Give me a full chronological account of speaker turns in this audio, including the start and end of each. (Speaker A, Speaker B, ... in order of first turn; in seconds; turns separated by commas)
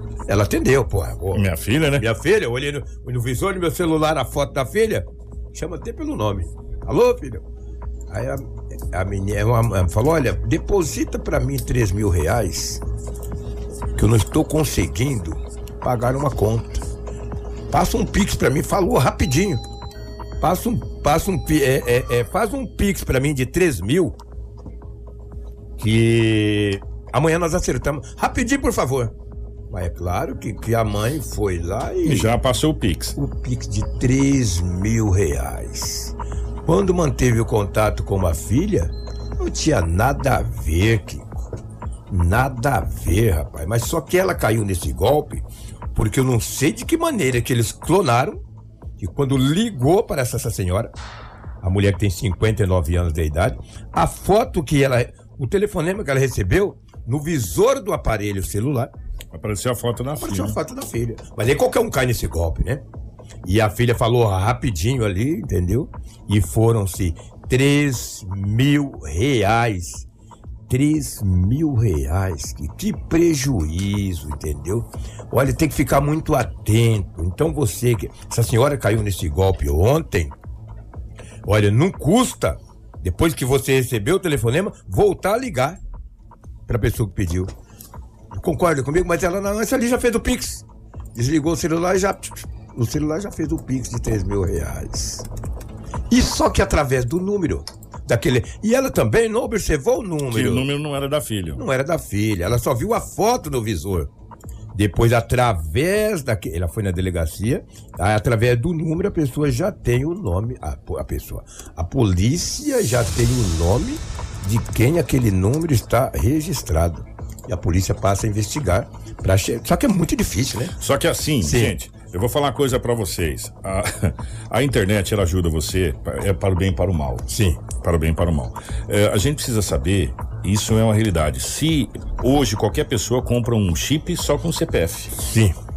Speaker A: 0.3-7.5, Speaker B: 1.3-2.0, Speaker A: 8.1-12.8, Speaker A: 13.9-16.8, Speaker A: 17.7-19.6, Speaker A: 20.4-24.2, Speaker A: 25.8-29.1, Speaker A: 29.7-32.4, Speaker B: 32.0-33.1, Speaker A: 33.1-41.5, Speaker A: 42.1-48.4, Speaker A: 49.0-50.9, Speaker A: 51.6-58.9, Speaker B: 59.3-60.6, Speaker A: 60.1-62.8, Speaker A: 63.4-70.0, Speaker A: 70.7-80.3, Speaker A: 81.4-85.8, Speaker A: 86.7-87.5, Speaker A: 88.3-95.3, Speaker A: 96.1-100.7, Speaker B: 100.3-101.6, Speaker A: 101.5-104.1, Speaker A: 104.7-120.8, Speaker B: 120.8-135.2, Speaker A: 121.4-121.7, Speaker A: 127.3-127.6, Speaker A: 135.2-135.6